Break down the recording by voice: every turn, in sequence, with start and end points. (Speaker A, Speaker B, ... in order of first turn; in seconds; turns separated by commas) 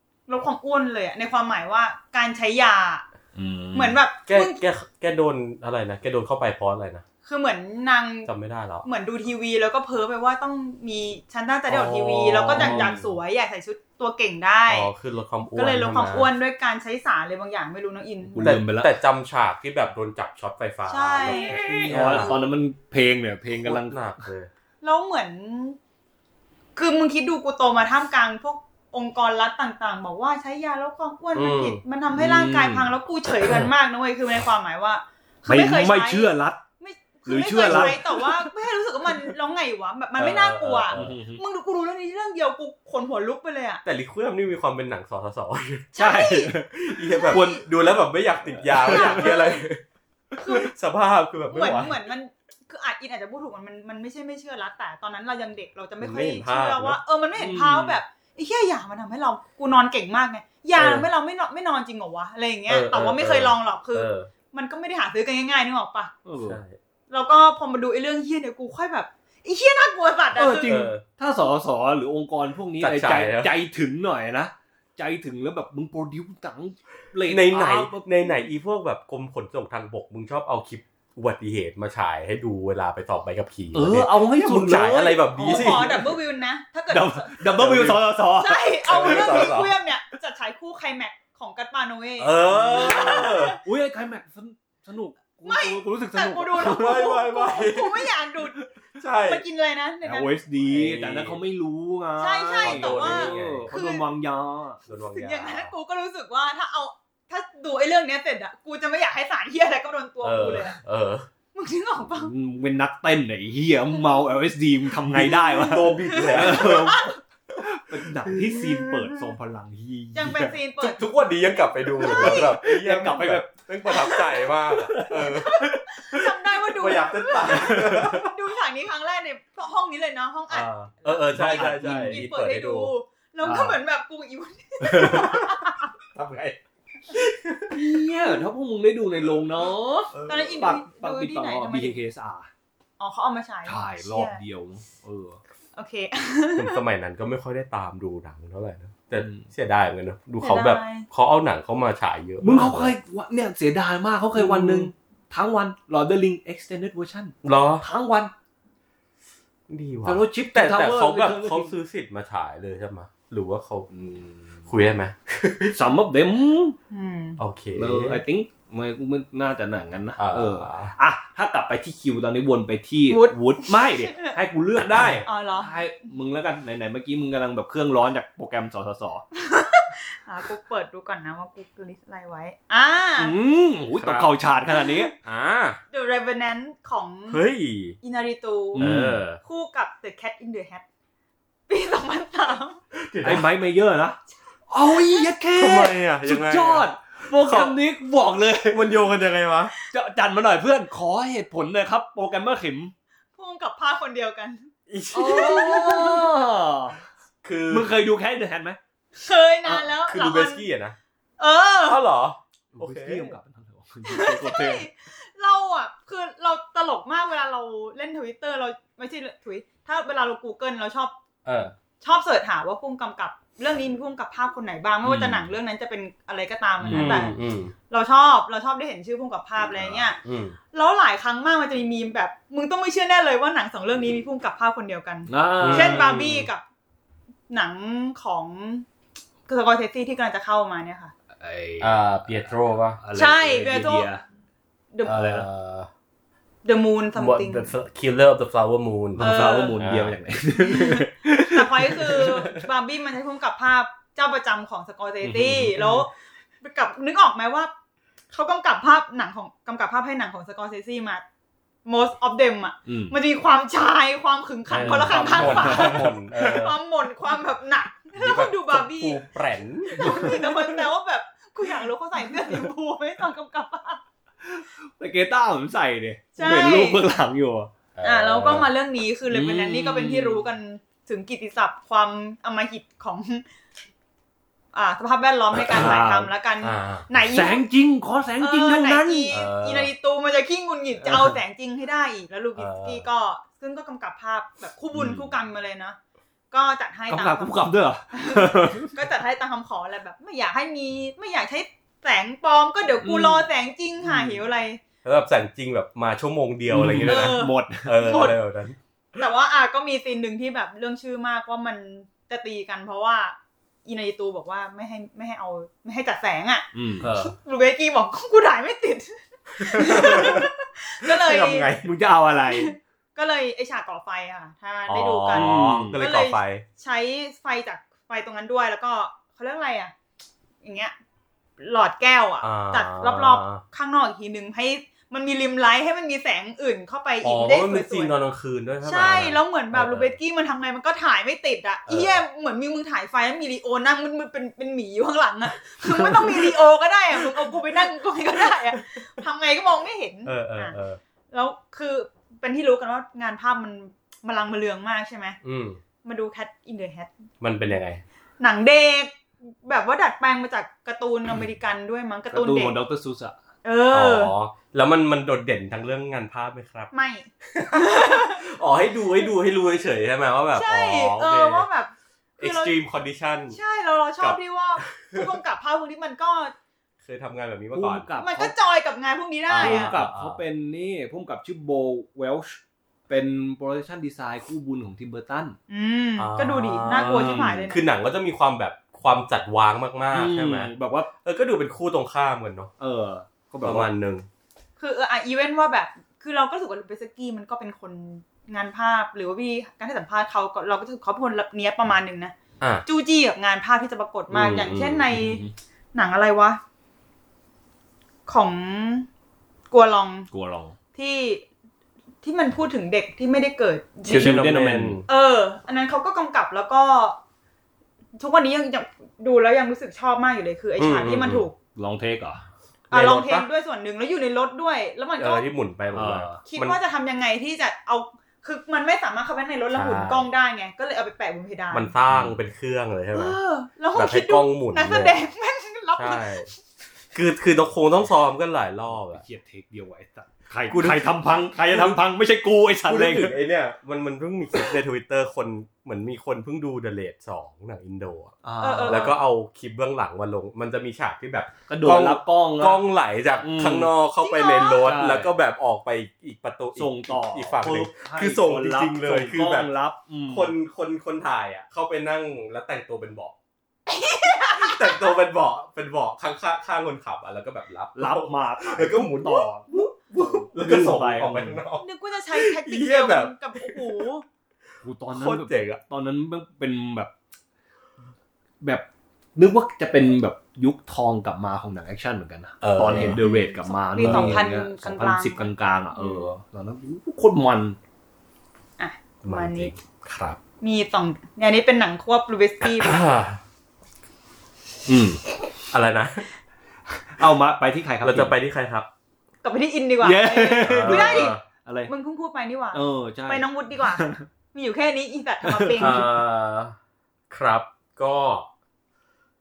Speaker A: 0.3-3.0, Speaker B: 3.4-4.0, Speaker A: 3.7-4.6, Speaker C: 4.3-7.0, Speaker A: 7.2-8.3, Speaker C: 8.3-8.9, Speaker A: 8.8-14.9, Speaker C: 11.7-13.0, Speaker B: 12.5-13.1, Speaker C: 14.7-16.3, Speaker A: 15.6-18.6, Speaker B: 18.3-18.9, Speaker C: 18.4-22.4, Speaker A: 20.9-22.3, Speaker B: 21.3-24.3, Speaker C: 23.6-24.5, Speaker A: 24.8-25.8, Speaker A: 26.8-43.8, Speaker C: 31.4-31.8, Speaker B: 32.1-33.0, Speaker C: 33.4-33.7, Speaker B: 35.5-36.6, Speaker B: 37.3-38.5, Speaker C: 37.6-38.0, Speaker C: 40.2-41.1, Speaker B: 40.9-41.4, Speaker C: 43.9-49.8, Speaker A: 45.9-46.6, Speaker B: 46.0-47.6, Speaker A: 47.1-47.6, Speaker B: 48.5-49.4, Speaker A: 48.8-49.6, Speaker A: 50.4-50.7, Speaker C: 50.4-52.0, Speaker A: 51.5-66.1, Speaker C: 56.0-57.0, Speaker B: 57.4-58.0, Speaker C: 60.8-61.1, Speaker C: 62.7-64.3, Speaker B: 66.2-66.6, Speaker C: 66.4-66.8, Speaker A: 67.1-70.9, Speaker B: 70.3-78.3, Speaker C: 70.6-71.0, Speaker C: 72.8-73.5, Speaker C: 77.3-86.1, Speaker B: 83.7-86.2, Speaker A: 85.4-87.5, Speaker B: 86.9-89.6, Speaker C: 87.6-88.0, Speaker A: 88.4-93.6, Speaker C: 88.9-89.8, Speaker C: 92.2-93.6, Speaker B: 92.5-97.2, Speaker A: 95.5-98.6, Speaker C: 96.6-98.1, Speaker C: 99.0-99.4, Speaker A: 99.2-100.4, Speaker B: 100.0-104.8, Speaker C: 100.6-101.4, Speaker A: 102.2-104.0, Speaker C: 102.6-103.7, Speaker C: 104.9-105.7, Speaker A: 104.9-110.8, Speaker C: 110.2-111.3, Speaker A: 111.5-112.3, Speaker B: 112.1-120.6, Speaker A: 115.1-117.2, Speaker C: 115.2-117.0, Speaker A: 118.5-119.3, Speaker A: 120.1-121.1, Speaker C: 120.8-128.3, Speaker A: 121.8-122.6, Speaker B: 122.0-123.5, Speaker A: 123.9-124.5, Speaker B: 124.7-125.3, Speaker A: 125.1-135.9, Speaker B: 127.4-128.2, Speaker C: 130.5-132.9, Speaker B: 131.3-132.3, Speaker B: 133.4-133.8, Speaker B: 134.8-135.4, Speaker C: 135.1-135.4, Speaker C: 136.1-136.6, Speaker C: 137.1-137.8, Speaker B: 137.7-142.5, Speaker C: 140.1-140.6, Speaker A: 140.2-142.0, Speaker A: 143.0-144.4, Speaker B: 143.7-145.4, Speaker A: 145.8-146.8, Speaker C: 146.6-152.9, Speaker B: 149.2-149.5, Speaker A: 150.4-151.1, Speaker B: 152.4-158.3, Speaker C: 154.3-154.9, Speaker C: 157.4-157.9, Speaker C: 159.7-165.8, Speaker B: 160.0-161.7, Speaker B: 165.7-166.8, Speaker A: 166.9-167.4, Speaker C: 167.4-168.2, Speaker B: 167.8-179.2, Speaker C: 170.2-170.9, Speaker A: 173.1-174.4, Speaker A: 175.2-175.8, Speaker A: 179.3-183.4, Speaker B: 183.2-185.1, Speaker C: 184.0-184.3, Speaker C: 185.2-185.8, Speaker A: 185.9-187.4, Speaker C: 187.3-188.0, Speaker A: 188.0-190.8, Speaker B: 188.8-189.2, Speaker C: 188.8-189.4, Speaker A: 191.7-192.8, Speaker C: 192.9-193.5, Speaker B: 193.2-198.9, Speaker A: 194.9-195.2, Speaker C: 195.6-197.8, Speaker C: 198.7-199.7, Speaker B: 199.9-202.9, Speaker A: 203.3-204.7, Speaker C: 204.9-206.3, Speaker B: 205.1-207.0, Speaker C: 207.4-207.9, Speaker B: 207.7-208.8, Speaker A: 209.2-210.7, Speaker C: 210.0-211.0, Speaker A: 211.4-212.0, Speaker C: 211.9-213.4, Speaker B: 212.7-214.9, Speaker A: 214.1-221.2, Speaker C: 221.4-221.7, Speaker A: 222.0-227.4, Speaker C: 225.1-225.4, Speaker B: 226.8-227.3, Speaker C: 226.9-227.7, Speaker A: 227.9-230.2, Speaker C: 229.7-230.6, Speaker A: 230.7-236.6, Speaker B: 235.3-236.3, Speaker C: 235.6-236.5, Speaker A: 237.5-238.9, Speaker A: 239.5-241.1, Speaker B: 241.3-244.2, Speaker C: 241.8-243.0, Speaker A: 243.1-244.1, Speaker A: 244.9-245.2, Speaker C: 245.1-245.9, Speaker B: 245.1-245.5, Speaker A: 246.7-247.7, Speaker C: 247.2-250.2, Speaker B: 249.2-252.6, Speaker A: 249.2-249.8, Speaker A: 250.5-257.7, Speaker C: 255.3-255.8, Speaker A: 258.3-261.2, Speaker A: 261.9-269.2, Speaker B: 262.9-263.1, Speaker C: 264.7-266.8, Speaker B: 264.8-266.6, Speaker C: 268.1-270.6, Speaker A: 269.9-274.0, Speaker B: 270.0-270.4, Speaker B: 274.4-277.7, Speaker A: 276.4-277.0, Speaker C: 277.9-278.7, Speaker A: 278.0-283.5, Speaker B: 279.3-280.5, Speaker A: 284.7-287.6, Speaker C: 285.6-286.0, Speaker B: 285.7-286.3, Speaker C: 286.6-287.2, Speaker B: 287.3-289.4, Speaker A: 288.4-296.0, Speaker C: 289.3-289.9, Speaker B: 291.0-291.4, Speaker C: 292.6-293.1, Speaker B: 294.9-295.2, Speaker A: 296.5-304.8, Speaker B: 297.1-298.9, Speaker B: 303.0-303.5, Speaker B: 304.0-304.4, Speaker C: 305.0-308.8, Speaker B: 306.7-308.3, Speaker A: 307.1-308.4, Speaker A: 309.2-321.8, Speaker B: 316.7-317.1, Speaker C: 317.0-317.4, Speaker C: 319.6-320.5, Speaker C: 321.0-321.9, Speaker B: 321.8-322.7, Speaker A: 322.5-329.9, Speaker C: 324.9-326.6, Speaker B: 325.3-326.0, Speaker A: 330.6-330.9, Speaker A: 331.6-338.1, Speaker C: 332.4-333.6, Speaker C: 337.2-340.1, Speaker A: 338.8-350.8, Speaker C: 341.9-342.2, Speaker B: 346.0-346.3, Speaker C: 350.3-351.0, Speaker A: 351.3-355.4, Speaker C: 355.4-355.8, Speaker A: 356.0-357.1, Speaker C: 357.4-358.0, Speaker A: 358.4-362.8, Speaker B: 362.3-363.4, Speaker A: 363.6-364.3, Speaker C: 363.9-366.9, Speaker A: 366.9-368.4, Speaker C: 367.4-371.7, Speaker A: 370.6-372.8, Speaker C: 372.4-373.6, Speaker A: 373.5-376.5, Speaker C: 374.2-375.4, Speaker C: 377.0-378.1, Speaker B: 377.7-378.5, Speaker A: 378.2-380.0, Speaker C: 379.5-380.4, Speaker B: 379.6-385.6, Speaker A: 385.7-387.8, Speaker C: 386.2-390.7, Speaker B: 386.9-387.7, Speaker B: 390.1-391.1, Speaker C: 391.2-392.7, Speaker B: 392.8-393.9, Speaker C: 393.6-394.3, Speaker A: 394.8-402.4, Speaker A: 402.9-405.4, Speaker C: 404.3-405.1, Speaker B: 405.1-405.5, Speaker A: 405.9-406.6, Speaker A: 408.3-409.1, Speaker A: 409.7-410.3, Speaker B: 410.3-410.8, Speaker A: 410.9-411.4, Speaker A: 412.2-414.4, Speaker C: 414.1-415.1, Speaker B: 414.1-415.0, Speaker A: 415.1-417.2, Speaker A: 418.2-421.6, Speaker C: 420.8-421.5, Speaker B: 421.8-422.4, Speaker C: 422.9-423.5, Speaker A: 422.9-425.5, Speaker C: 425.2-426.8, Speaker B: 425.9-426.4, Speaker A: 426.5-431.9, Speaker C: 429.7-430.3, Speaker C: 431.7-433.4, Speaker B: 432.1-432.4, Speaker A: 433.1-436.4, Speaker C: 433.9-435.2, Speaker C: 436.0-436.5, Speaker C: 437.1-439.2, Speaker B: 438.9-443.4, Speaker C: 440.7-442.0, Speaker C: 442.9-459.7, Speaker B: 448.4-449.2, Speaker A: 448.6-449.2, Speaker B: 451.7-452.8, Speaker B: 453.4-453.9, Speaker A: 454.2-454.9, Speaker B: 454.8-455.3, Speaker B: 456.8-460.5, Speaker C: 460.3-463.3, Speaker A: 463.9-465.1, Speaker C: 464.5-474.0, Speaker B: 467.9-471.6, Speaker A: 471.8-474.2, Speaker B: 474.8-477.1, Speaker C: 475.1-475.8, Speaker B: 478.6-487.8, Speaker C: 482.6-483.2, Speaker A: 482.9-486.3, Speaker C: 484.0-484.4, Speaker A: 488.8-489.7, Speaker C: 489.2-490.4, Speaker A: 490.6-493.0, Speaker C: 492.6-493.4, Speaker B: 494.9-495.2, Speaker C: 495.7-496.3, Speaker B: 496.9-498.4, Speaker C: 498.0-498.9, Speaker A: 499.4-501.4, Speaker B: 500.0-501.9, Speaker C: 500.6-501.4, Speaker A: 501.9-506.1, Speaker B: 502.7-504.2, Speaker B: 505.4-506.1, Speaker C: 505.8-506.8, Speaker C: 507.3-508.5